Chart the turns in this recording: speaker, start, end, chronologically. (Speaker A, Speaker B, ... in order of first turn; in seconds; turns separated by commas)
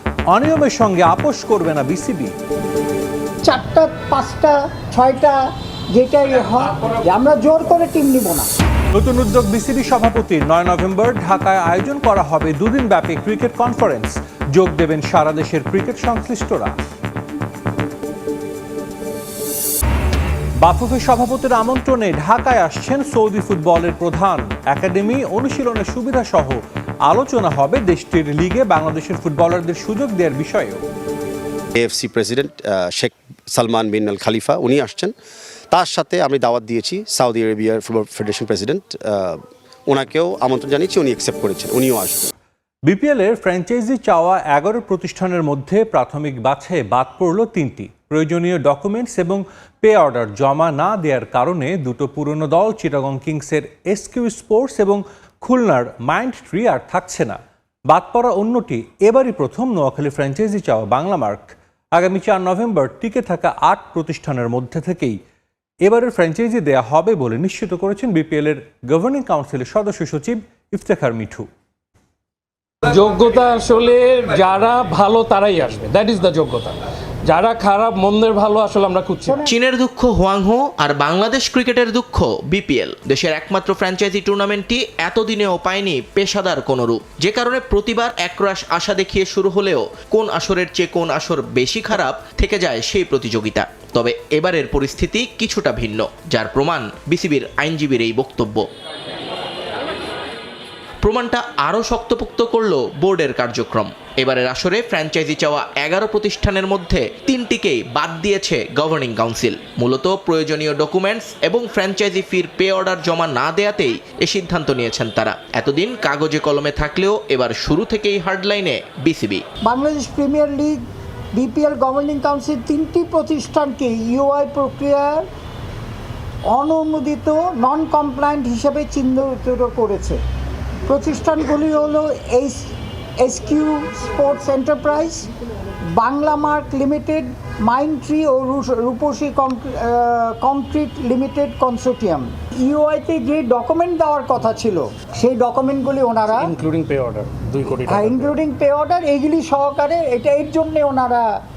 Speaker A: 0.3-2.3, Speaker B: 3.4-8.5, Speaker A: 8.9-16.8, Speaker A: 20.6-30.8, Speaker C: 31.8-35.1, Speaker C: 35.7-42.3, Speaker A: 42.9-57.4, Speaker A: 57.9-65.2, Speaker A: 65.8-71.5, Speaker D: 72.8-79.4, Speaker B: 79.2-79.6, Speaker E: 79.5-98.7, Speaker E: 101.0-119.4, Speaker B: 119.7-120.8, Speaker B: 121.3-125.2, Speaker B: 126.5-130.2, Speaker B: 130.9-135.3, Speaker B: 135.9-146.5, Speaker D: 146.4-148.4, Speaker B: 147.8-151.2